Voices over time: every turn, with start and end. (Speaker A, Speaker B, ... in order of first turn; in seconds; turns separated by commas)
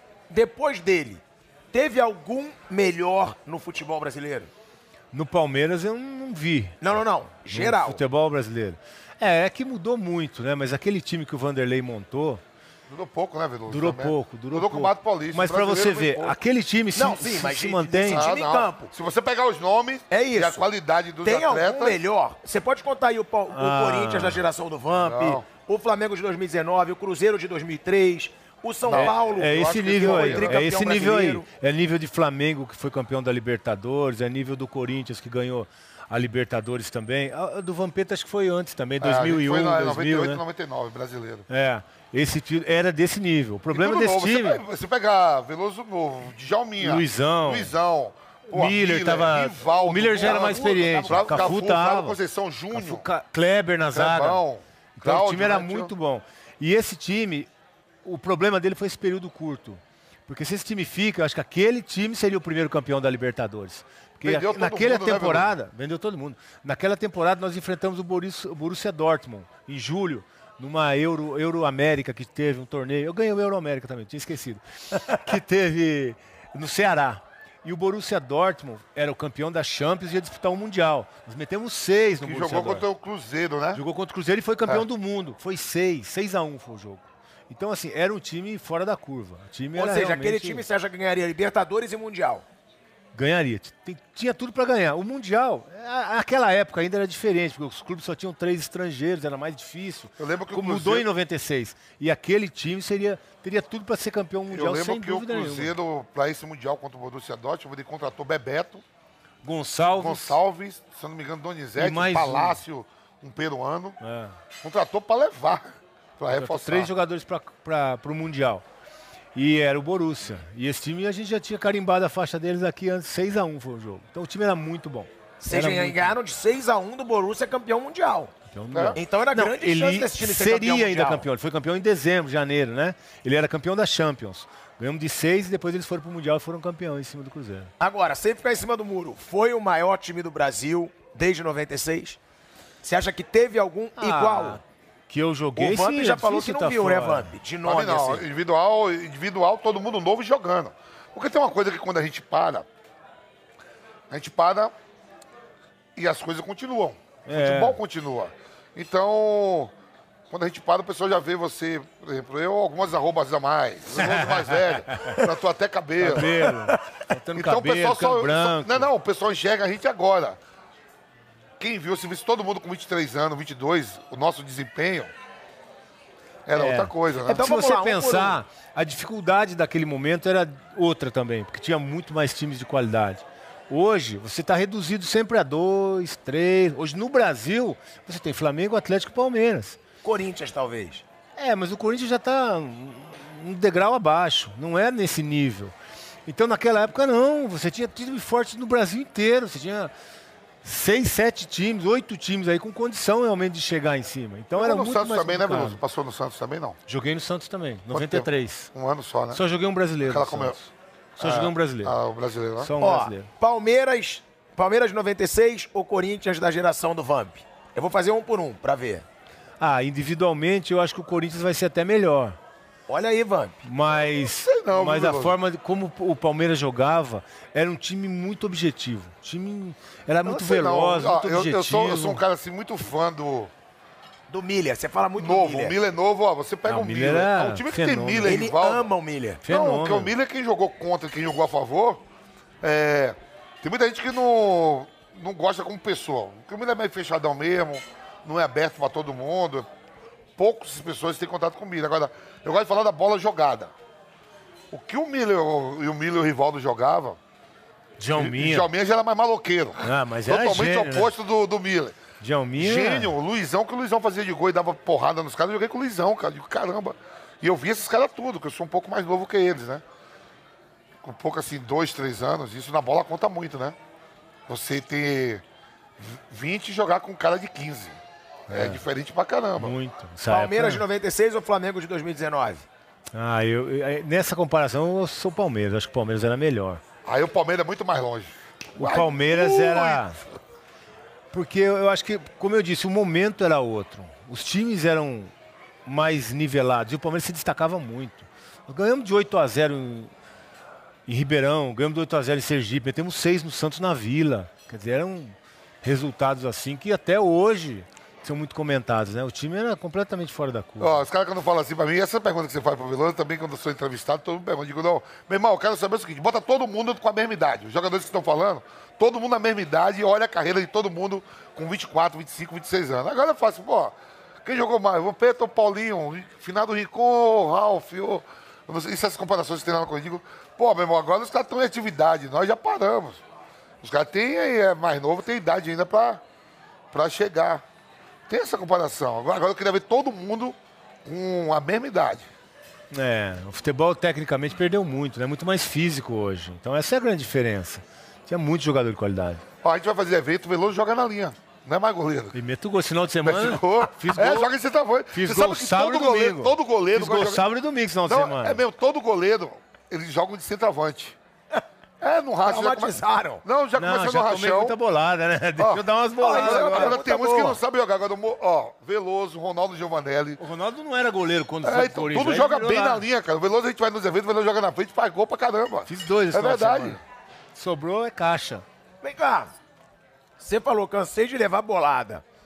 Speaker A: 0.3-4.5, Speaker B: 5.1-6.8, Speaker A: 6.8-8.0, Speaker B: 7.5-12.4, Speaker C: 12.9-16.4, Speaker B: 13.7-18.2, Speaker A: 16.9-18.9, Speaker C: 18.1-22.0, Speaker A: 20.1-20.6, Speaker A: 21.2-31.4, Speaker B: 23.5-24.4, Speaker C: 25.0-25.4, Speaker C: 28.8-30.6, Speaker B: 28.9-40.4, Speaker C: 39.0-41.5, Speaker B: 41.5-44.6, Speaker C: 43.7-53.0, Speaker B: 46.8-47.7, Speaker B: 48.5-52.2, Speaker A: 51.0-51.4, Speaker B: 52.7-54.4, Speaker C: 53.9-55.9, Speaker B: 55.0-57.5, Speaker B: 58.0-82.9, Speaker C: 64.2-65.5, Speaker C: 82.2-83.8, Speaker B: 83.8-90.6, Speaker A: 89.8-92.4, Speaker B: 93.1-105.7, Speaker C: 100.2-101.1, Speaker C: 104.5-108.8, Speaker B: 109.4-110.4, Speaker C: 109.9-114.0, Speaker B: 111.8-112.6, Speaker B: 114.0-114.4, Speaker C: 114.6-116.9, Speaker B: 116.3-118.6, Speaker B: 119.3-126.2, Speaker A: 125.4-128.3, Speaker B: 128.5-137.7, Speaker C: 128.7-129.0, Speaker A: 128.9-131.3, Speaker A: 137.8-142.2, Speaker A: 142.8-144.6, Speaker B: 144.0-147.3, Speaker A: 145.6-148.2, Speaker C: 147.6-152.7, Speaker C: 154.1-154.7, Speaker C: 155.9-159.7, Speaker B: 157.2-157.8, Speaker C: 160.3-166.5, Speaker B: 163.9-165.2, Speaker B: 166.0-168.9, Speaker A: 166.2-166.8, Speaker C: 167.4-170.4, Speaker C: 171.6-175.1, Speaker C: 176.4-177.5, Speaker B: 176.5-189.8, Speaker A: 177.3-178.4, Speaker A: 190.0-191.0, Speaker B: 191.4-195.8, Speaker B: 196.3-199.9, Speaker B: 200.6-205.8, Speaker C: 204.6-206.8, Speaker B: 206.9-208.7, Speaker C: 207.9-209.4, Speaker B: 209.3-211.9, Speaker C: 210.0-210.6, Speaker C: 211.2-212.7, Speaker B: 212.6-213.3, Speaker A: 212.8-219.0, Speaker B: 219.6-222.4, Speaker A: 222.9-223.6, Speaker B: 223.6-232.2, Speaker C: 224.3-225.4, Speaker C: 230.2-233.5, Speaker A: 234.3-235.8, Speaker C: 235.2-238.9, Speaker B: 236.7-238.5, Speaker A: 238.2-239.4, Speaker B: 239.4-240.1, Speaker C: 239.4-242.0, Speaker C: 242.6-249.7, Speaker C: 250.4-253.7, Speaker C: 254.7-257.2, Speaker B: 258.0-258.7, Speaker C: 258.1-262.0, Speaker B: 259.8-261.1, Speaker B: 262.2-263.1, Speaker C: 262.6-269.8, Speaker C: 271.0-273.8, Speaker C: 274.5-275.4, Speaker C: 276.0-279.8, Speaker B: 278.5-278.8, Speaker B: 279.6-280.8, Speaker A: 280.3-282.6, Speaker B: 283.1-286.8, Speaker C: 287.0-290.1, Speaker B: 288.8-290.2, Speaker B: 291.3-295.3, Speaker B: 295.9-300.1, Speaker B: 301.1-311.0, Speaker C: 310.8-333.2, Speaker C: 333.8-336.2, Speaker C: 336.9-337.6, Speaker C: 338.3-342.3, Speaker B: 342.9-349.4, Speaker C: 349.6-352.4, Speaker B: 352.3-354.5, Speaker C: 353.2-357.4, Speaker B: 355.1-358.6, Speaker C: 358.1-361.2, Speaker C: 362.0-364.8, Speaker A: 362.4-363.4, Speaker B: 363.8-367.0, Speaker C: 365.6-370.4, Speaker A: 366.2-367.6, Speaker B: 370.4-373.0, Speaker C: 371.6-377.0, Speaker B: 375.9-377.0, Speaker B: 377.5-378.6, Speaker A: 379.0-379.5, Speaker A: 380.4-382.2